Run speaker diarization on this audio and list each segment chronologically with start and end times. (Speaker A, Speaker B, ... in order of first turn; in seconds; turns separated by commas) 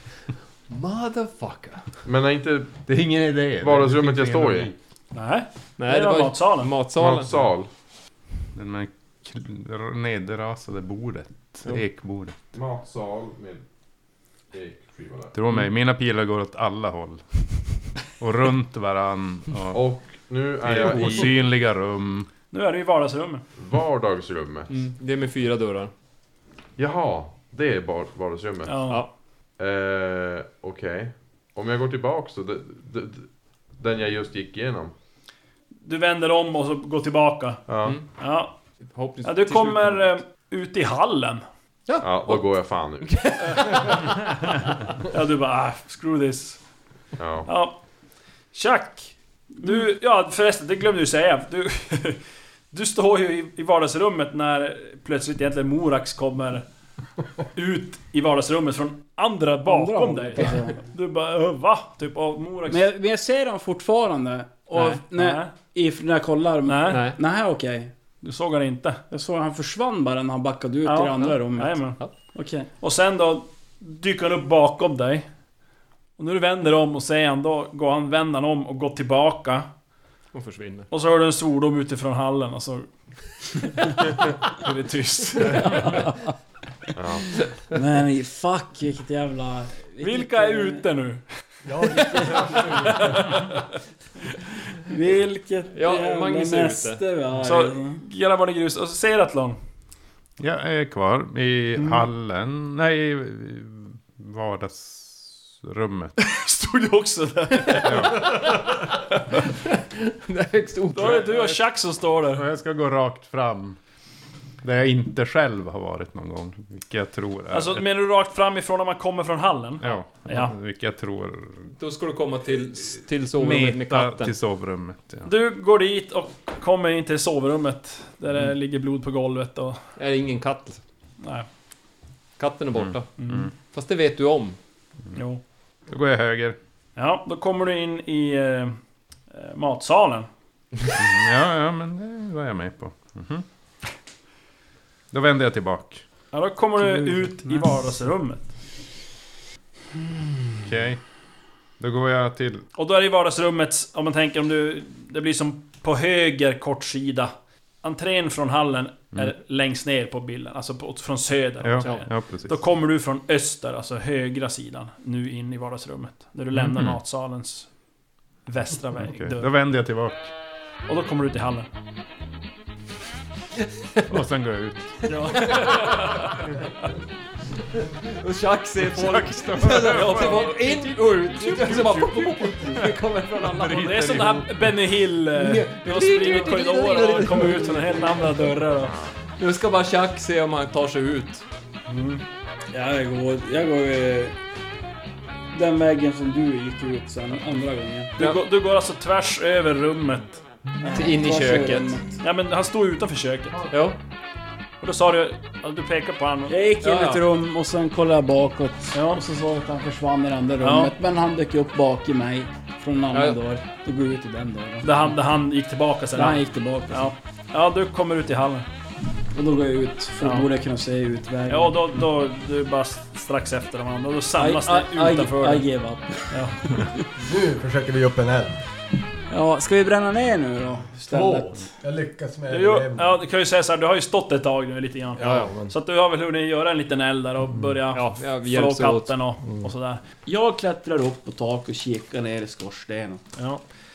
Speaker A: 0.7-2.0, Speaker B: 2.0-2.9, Speaker C: 2.9-4.7, Speaker B: 3.6-4.7, Speaker D: 5.1-6.7, Speaker A: 5.8-7.4, Speaker B: 6.9-7.7, Speaker C: 8.5-12.4, Speaker B: 12.5-13.6, Speaker B: 14.5-15.3, Speaker C: 15.3-19.8, Speaker B: 19.7-21.4, Speaker C: 20.6-22.3, Speaker D: 22.5-23.4, Speaker B: 23.6-24.8, Speaker A: 24.7-25.9, Speaker B: 26.8-29.0, Speaker D: 28.6-29.0, Speaker B: 29.6-34.9, Speaker D: 35.8-38.5, Speaker B: 37.7-38.0, Speaker A: 38.9-40.1, Speaker D: 39.2-41.4, Speaker A: 41.9-44.1, Speaker B: 42.0-43.4, Speaker D: 45.0-46.6, Speaker B: 47.2-47.5, Speaker D: 47.5-47.8, Speaker D: 48.5-52.2, Speaker D: 52.7-56.6, Speaker D: 57.5-62.9, Speaker E: 59.6-60.8, Speaker E: 62.7-67.9, Speaker D: 64.7-65.5, Speaker D: 66.7-67.1, Speaker A: 66.9-67.2, Speaker D: 68.2-69.0, Speaker E: 69.1-72.7, Speaker D: 70.8-72.1, Speaker D: 72.8-75.3, Speaker D: 76.2-79.7, Speaker A: 80.3-80.9, Speaker D: 80.9-82.9, Speaker D: 84.6-86.0, Speaker E: 85.5-86.3, Speaker B: 87.0-87.3, Speaker E: 87.7-90.8, Speaker D: 90.0-91.3, Speaker F: 91.6-93.3, Speaker D: 91.9-93.6, Speaker E: 92.0-92.9, Speaker E: 94.8-98.0, Speaker A: 95.7-97.0, Speaker D: 97.4-99.6, Speaker C: 100.4-106.2, Speaker D: 106.4-108.3, Speaker C: 107.8-108.5, Speaker A: 109.6-111.5, Speaker D: 110.9-112.5, Speaker C: 112.3-113.8, Speaker C: 114.6-117.8, Speaker D: 117.5-120.5, Speaker C: 119.8-121.7, Speaker A: 121.8-124.3, Speaker C: 123.3-125.3, Speaker D: 125.2-129.8, Speaker A: 130.0-130.8, Speaker D: 131.2-131.5, Speaker A: 132.4-134.6, Speaker C: 132.8-133.5, Speaker D: 133.2-133.5, Speaker D: 135.1-135.4, Speaker C: 135.9-136.6, Speaker D: 136.9-138.8, Speaker D: 139.3-140.3, Speaker C: 141.0-143.4, Speaker C: 145.1-146.0, Speaker D: 146.3-148.5, Speaker C: 150.6-151.0, Speaker C: 151.8-152.6, Speaker D: 152.8-167.7, Speaker C: 161.6-162.6, Speaker C: 166.5-167.0, Speaker D: 168.4-169.5, Speaker C: 169.0-170.3, Speaker D: 170.9-171.7, Speaker C: 174.1-175.6, Speaker D: 175.0-176.5, Speaker A: 175.3-176.1, Speaker A: 178.1-184.4, Speaker C: 178.9-180.7, Speaker D: 179.6-182.4, Speaker C: 181.5-182.2, Speaker C: 183.4-184.5, Speaker D: 183.8-188.9, Speaker A: 185.3-188.1, Speaker A: 189.4-191.4, Speaker D: 191.9-192.2, Speaker E: 192.7-194.3, Speaker E: 195.5-198.1, Speaker D: 198.2-200.4, Speaker E: 200.8-202.1, Speaker A: 200.8-202.0, Speaker D: 202.2-203.7, Speaker A: 203.7-204.0, Speaker D: 204.8-206.6, Speaker E: 206.5-215.1, Speaker A: 206.8-207.2, Speaker D: 208.9-209.2, Speaker D: 210.6-210.9, Speaker D: 214.8-216.4, Speaker E: 216.1-217.1, Speaker D: 216.9-218.7, Speaker E: 219.3-222.0, Speaker D: 220.2-220.5, Speaker D: 221.5-225.6, Speaker E: 224.3-226.9, Speaker D: 226.3-226.9, Speaker F: 227.2-228.6, Speaker E: 229.3-231.6, Speaker F: 231.0-233.2, Speaker D: 232.5-240.0, Speaker F: 235.2-235.7, Speaker A: 235.2-235.5, Speaker A: 237.9-239.1, Speaker E: 240.2-243.2, Speaker D: 243.4-243.6